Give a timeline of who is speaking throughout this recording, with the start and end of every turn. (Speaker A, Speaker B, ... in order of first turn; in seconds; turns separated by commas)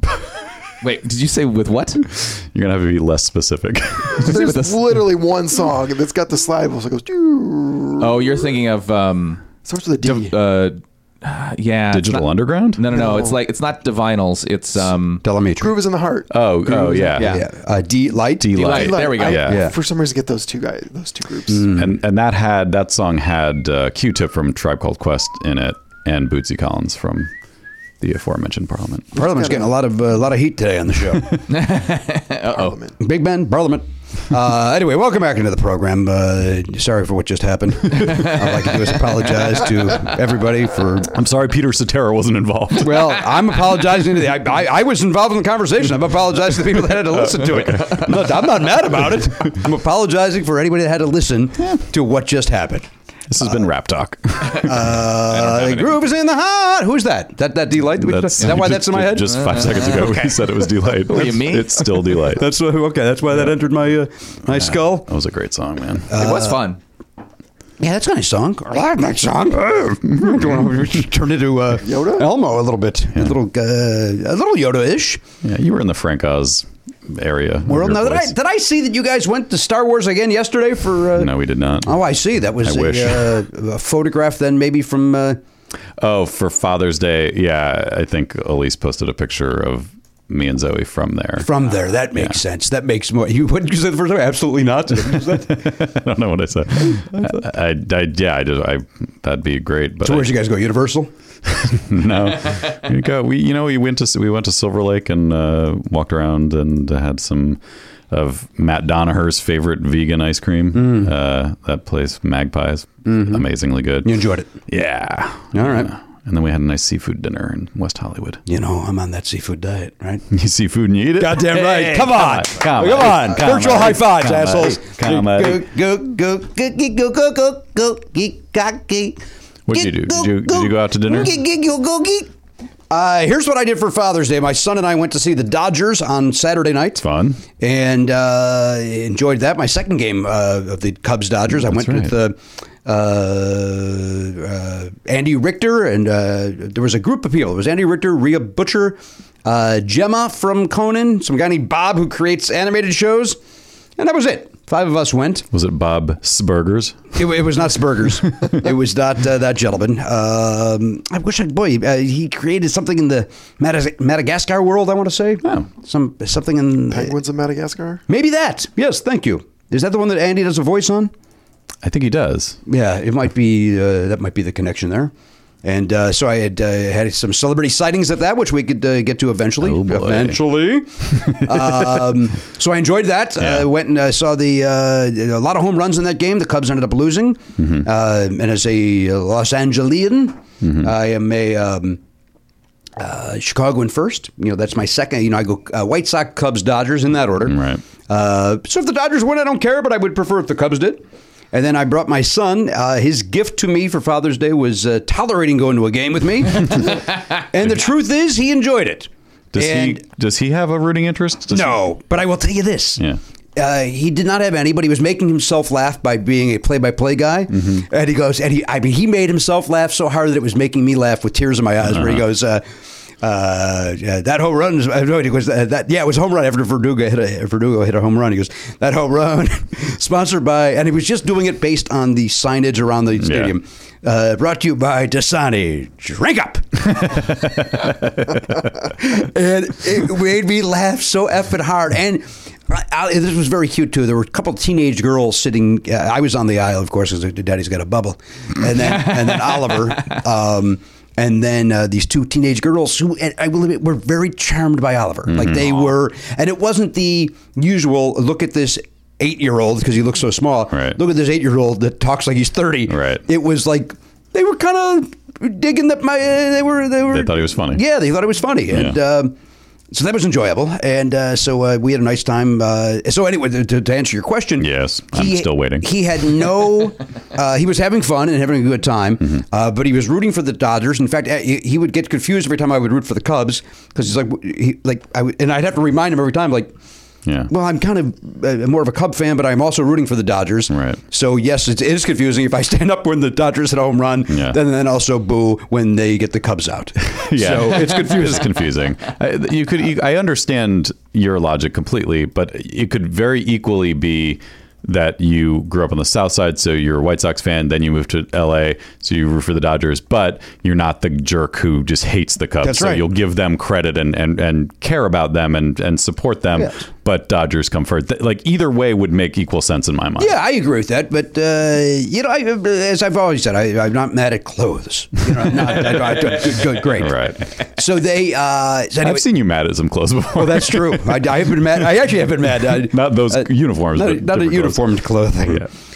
Speaker A: 0.8-2.0, Speaker B: 2.2-4.4, Speaker A: 4.2-5.1, Speaker C: 4.2-8.5, Speaker A: 8.0-9.4, Speaker C: 9.6-10.3, Speaker A: 10.0-15.2, Speaker B: 11.9-12.9, Speaker C: 12.9-13.4, Speaker D: 15.2-15.8, Speaker C: 15.6-17.1, Speaker B: 16.3-17.4, Speaker A: 16.9-17.4, Speaker D: 17.2-18.6, Speaker B: 18.4-19.7, Speaker A: 18.6-19.6, Speaker C: 18.6-21.7, Speaker D: 19.4-19.7, Speaker D: 21.5-21.9, Speaker B: 21.7-27.3, Speaker B: 28.0-29.1, Speaker C: 29.1-29.7, Speaker D: 29.1-31.4, Speaker A: 31.5-32.8, Speaker C: 32.5-33.0, Speaker D: 33.0-41.1, Speaker B: 41.1-43.2, Speaker D: 42.8-52.9, Speaker B: 47.0-48.5, Speaker B: 53.3-54.9, Speaker D: 54.5-60.3, Speaker A: 55.3-56.0, Speaker B: 57.9-62.5, Speaker A: 59.2-60.1, Speaker A: 61.0-61.9, Speaker D: 62.3-65.1, Speaker B: 64.5-66.2, Speaker D: 66.1-66.7, Speaker A: 66.1-66.8, Speaker D: 67.8-75.2, Speaker B: 70.1-70.7, Speaker C: 71.8-72.3, Speaker B: 75.4-78.3, Speaker D: 77.7-85.4, Speaker B: 81.1-83.4, Speaker B: 86.0-91.5, Speaker D: 91.4-95.8, Speaker B: 95.2-100.3, Speaker D: 100.0-101.1, Speaker B: 101.7-118.4, Speaker D: 110.7-111.1, Speaker D: 113.0-113.4, Speaker D: 114.0-114.5, Speaker D: 115.5-115.9, Speaker D: 118.5-120.2, Speaker B: 120.3-125.7, Speaker D: 121.2-132.3, Speaker B: 129.7-131.4, Speaker D: 132.9-137.0, Speaker B: 137.0-137.4, Speaker D: 137.6-153.4, Speaker B: 141.5-142.1, Speaker D: 154.0-155.4, Speaker B: 155.5-157.2, Speaker D: 157.1-167.1, Speaker C: 166.9-168.0, Speaker D: 168.1-171.1, Speaker B: 171.8-172.6, Speaker D: 172.7-175.1, Speaker D: 175.6-192.0, Speaker B: 179.6-180.4, Speaker B: 181.2-181.9, Speaker B: 183.4-183.7, Speaker B: 187.6-187.8, Speaker B: 190.6-190.9, Speaker D: 193.0-210.0, Speaker B: 197.4-197.8, Speaker B: 209.5-211.8, Speaker D: 211.5-213.0, Speaker D: 213.6-222.7, Speaker B: 217.5-217.8, Speaker B: 221.8-222.2, Speaker D: 223.2-237.8, Speaker B: 233.2-233.6, Speaker B: 237.1-238.4, Speaker D: 238.8-269.3, Speaker B: 255.3-255.9, Speaker B: 260.7-261.0, Speaker B: 262.9-263.2, Speaker B: 267.1-267.8, Speaker B: 268.7-269.0, Speaker D: 269.9-286.7, Speaker B: 274.6-275.9, Speaker B: 287.2-287.5, Speaker D: 287.5-298.6, Speaker B: 290.7-291.0, Speaker B: 294.3-294.6, Speaker B: 297.1-320.4, Speaker D: 312.6-313.0, Speaker D: 320.2-329.2, Speaker B: 326.8-327.4, Speaker B: 329.0-331.8, Speaker D: 330.3-335.7, Speaker B: 332.4-335.7